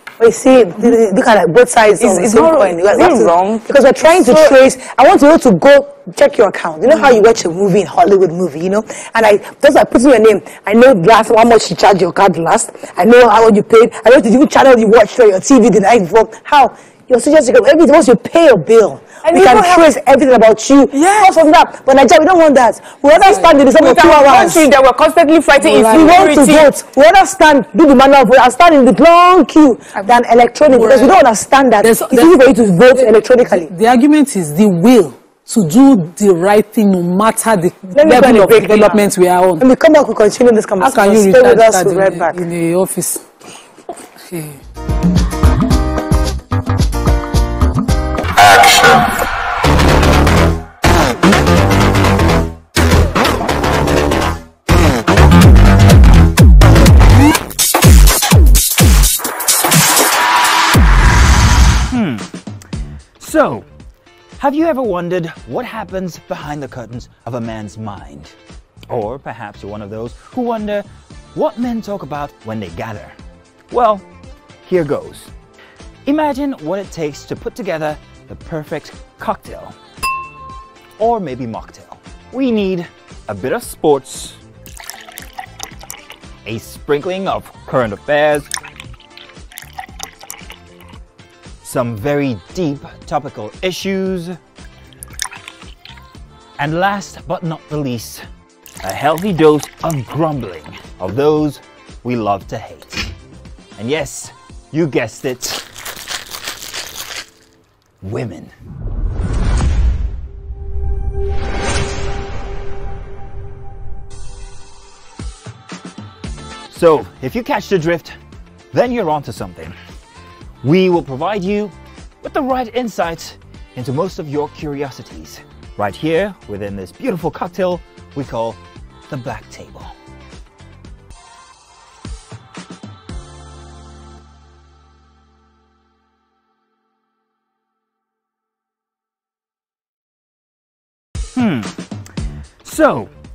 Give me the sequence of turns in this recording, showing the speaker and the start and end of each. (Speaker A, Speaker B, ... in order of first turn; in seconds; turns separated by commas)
Speaker A: 0.2-24.7, Speaker B: 2.0-4.6, Speaker B: 19.3-19.9, Speaker B: 21.0-21.3, Speaker B: 23.8-26.7, Speaker A: 25.6-33.7, Speaker C: 30.7-31.1, Speaker C: 31.8-32.4, Speaker C: 32.9-39.6, Speaker A: 38.0-39.0, Speaker A: 39.6-42.4, Speaker C: 40.8-43.3, Speaker C: 44.3-44.6, Speaker D: 61.9-62.3, Speaker D: 63.2-63.7, Speaker D: 64.4-68.3, Speaker D: 68.9-73.2, Speaker D: 73.7-74.0, Speaker D: 74.7-75.3, Speaker D: 76.1-79.8, Speaker D: 81.0-84.4, Speaker D: 86.5-88.5, Speaker D: 91.6-94.4, Speaker D: 96.6-98.3, Speaker D: 98.8-103.1, Speaker D: 103.8-105.7, Speaker D: 108.0-108.5, Speaker D: 116.7-118.2, Speaker D: 118.7-119.8, Speaker D: 120.6-129.9, Speaker D: 141.3-141.8, Speaker D: 142.6-143.1